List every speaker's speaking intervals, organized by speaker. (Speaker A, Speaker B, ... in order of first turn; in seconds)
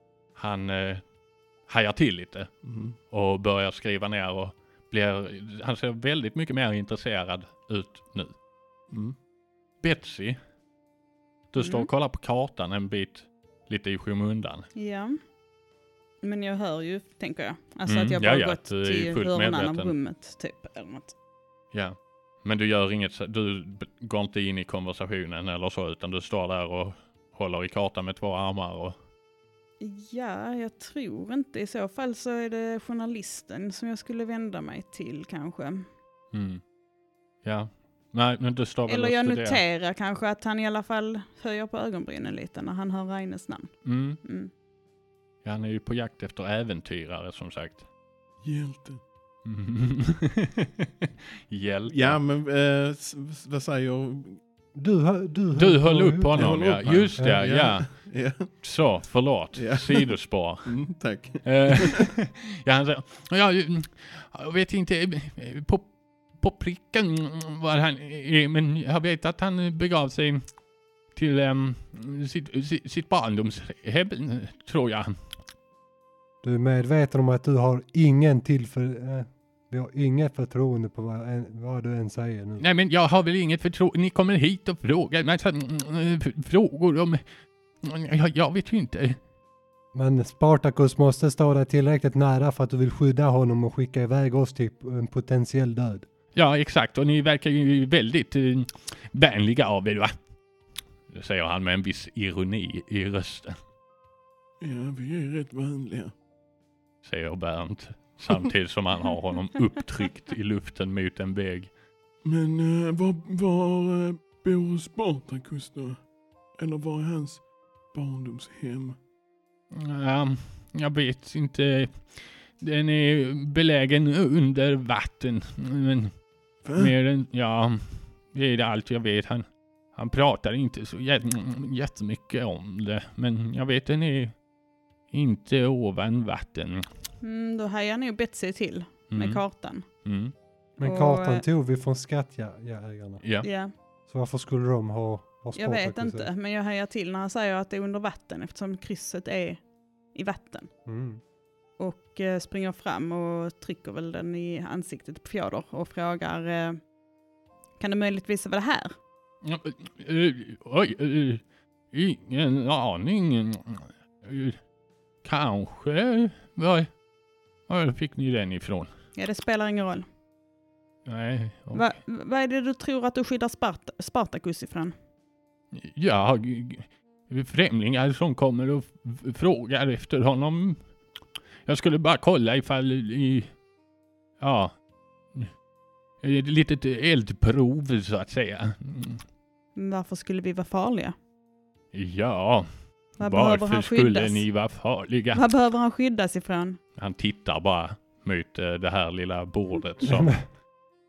Speaker A: 0.3-1.0, 1.7-2.5, 3.1-8.3, 9.8-10.4, 11.5-14.7, 17.9-19.9, 21.7-29.0, 36.3-36.6, 37.4-39.6, 43.9-44.2, 45.4-47.9, 49.5-52.2, 55.5-60.8, 61.4-70.4, 71.1-75.2, 82.6-87.2, 87.8-89.2, 96.3-100.2, 101.1-103.6, 107.0-111.7, 119.7-126.1, 126.8-134.3, 135.1-136.9, 139.1-139.4, 140.0-140.3, 143.2-143.5, 159.4-164.6, 165.2-166.9, 167.7-168.9, 171.1-171.9, 175.7-180.8, 181.7-183.5, 184.4-184.8, 186.2-189.2, 191.9-195.4, 197.0-200.4
Speaker B: 2.6-3.0, 8.9-9.2, 48.4-49.0, 51.9-54.4, 56.3-58.5, 59.5-62.1, 104.6-106.1, 112.2-116.0, 116.6-119.0, 126.6-126.9
Speaker C: 11.6-11.9, 14.8-15.2, 16.2-21.1, 29.8-35.9, 38.9-44.5, 137.2-139.9, 140.8-141.4, 143.4-143.7, 145.6-149.6, 150.1-150.7, 151.8-156.8, 157.8-158.9, 169.2-170.1, 171.7-174.9, 189.8-191.2, 193.2-194.4, 195.3-196.8
Speaker D: 54.8-57.5, 76.4-82.6, 89.9-96.1, 140.8-143.2, 144.1-146.3, 150.9-151.2, 200.1-200.4